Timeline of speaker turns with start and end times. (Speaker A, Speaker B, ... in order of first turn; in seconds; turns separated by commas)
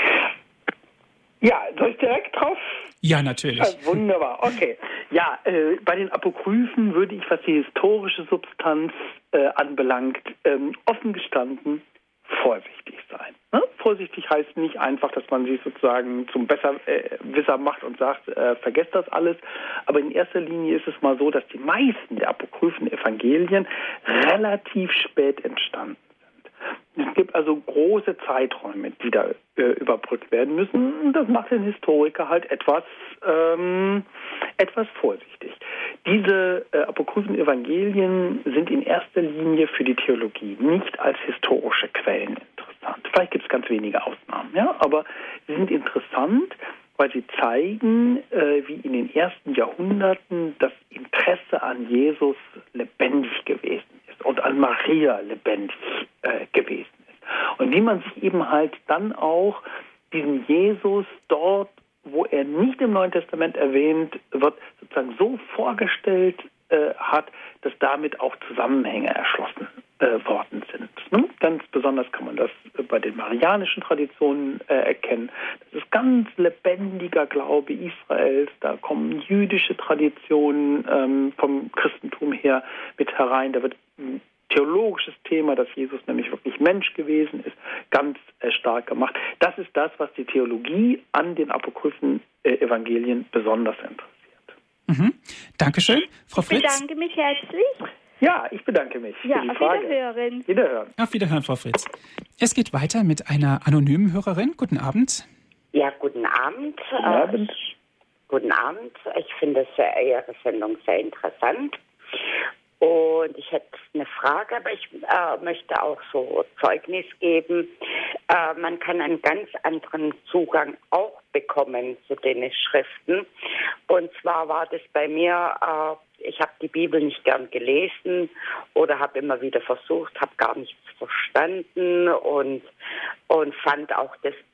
Speaker A: 1.4-2.8, Speaker B: 3.0-3.9, Speaker A: 3.6-34.0, Speaker A: 34.6-94.5, Speaker B: 94.9-96.8, Speaker C: 96.4-97.8, Speaker A: 98.2-100.9, Speaker C: 99.2-100.5, Speaker B: 101.0-105.2, Speaker D: 105.7-107.5, Speaker A: 107.0-107.5, Speaker D: 108.3-111.8, Speaker D: 112.8-117.7, Speaker D: 118.3-123.3, Speaker D: 123.9-132.7, Speaker D: 133.3-134.4